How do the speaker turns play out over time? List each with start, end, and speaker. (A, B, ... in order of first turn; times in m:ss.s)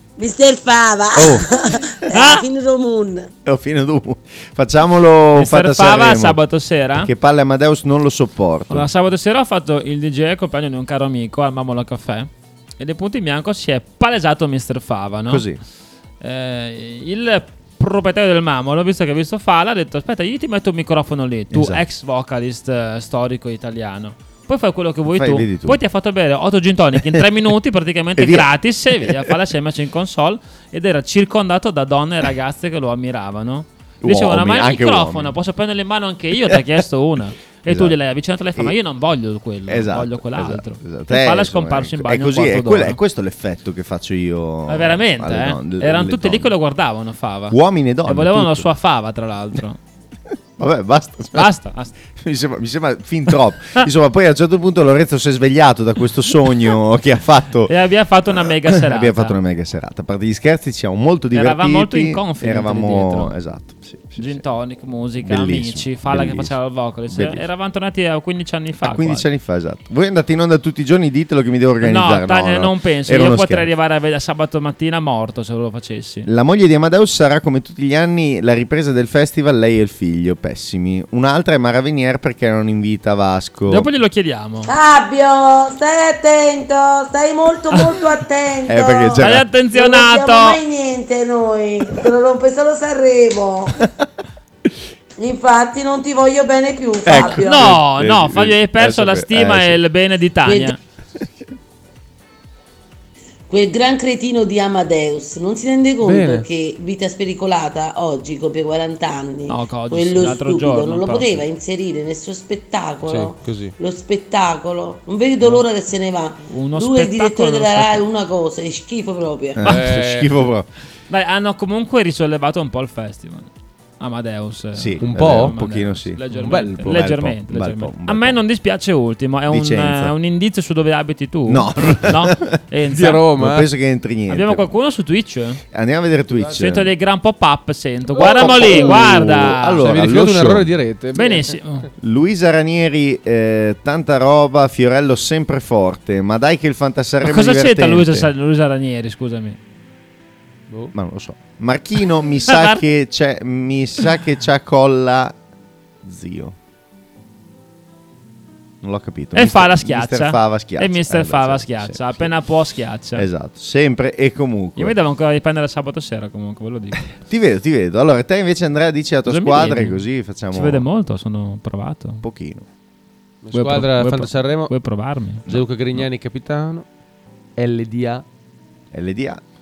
0:00.2-0:03.3 A
0:01.1-0:01.5 B
0:02.1-0:02.4 C
0:03.4-0:06.4 B
0:05.3-0:07.1 C
0:06.9-0:08.9 B
0:08.7-0:15.4 C
0:15.3-0:15.6 B
0:16.2-0:43.0 C
0:21.5-0:21.8 B
0:25.1-0:25.8 B
0:28.2-0:29.3 B
0:34.0-0:35.3 B
0:37.7-0:38.0 B
0:39.7-0:46.5 B
0:44.7-0:49.8 C
0:47.5-0:48.7 B
0:50.6-0:51.5 B
0:51.3-0:51.9 C
0:52.1-0:57.7 B
0:57.7-0:59.4 C
0:58.3-1:04.4 B
1:01.3-1:03.3 C
1:04.2-1:09.3 C
1:05.2-1:06.6 B
1:07.1-1:07.5 B
1:08.8-1:13.7 B
1:11.8-1:16.3 C
1:16.2-1:23.9 B
1:23.7-1:24.7 C
1:24.7-1:33.9 A
1:28.7-1:29.4 B
1:29.2-1:30.6 C
1:35.2-1:37.7 A
1:37.0-1:39.8 B
1:37.2-1:40.8 C
1:40.4-1:40.7 A
1:43.5-1:59.7 A
1:46.0-1:46.5 D
1:49.5-1:51.4 C
1:53.0-1:53.7 D
1:56.5-1:58.0 C
1:59.6-2:00.7 B
1:59.6-2:00.4 D
2:01.1-2:13.2 C
2:04.7-2:08.4 B
2:05.0-2:05.6 D
2:06.3-2:07.0 D
2:09.5-2:10.1 B
2:11.5-2:12.6 B
2:12.9-2:13.7 D
2:13.4-2:14.7 B
2:14.3-2:15.6 C
2:15.7-2:16.9 B
2:16.6-2:19.9 C
2:18.1-2:20.7 B
2:18.2-2:18.8 D
2:19.8-2:21.6 D
2:21.1-2:21.9 C
2:22.0-2:28.3 B
2:27.2-2:29.6 C
2:30.9-2:35.3 B
2:32.5-2:32.8 C
2:36.0-2:36.6 B
2:38.8-2:42.3 B
2:39.3-2:43.2 C
2:43.2-2:45.0 B
2:44.8-2:47.1 C
2:47.2-2:50.8 B
2:49.2-2:52.2 C
2:52.2-2:52.6 B
2:53.4-2:54.7 D
2:53.5-2:55.6 C
2:55.5-2:56.8 D
2:57.6-2:58.2 D
2:58.9-2:59.4 B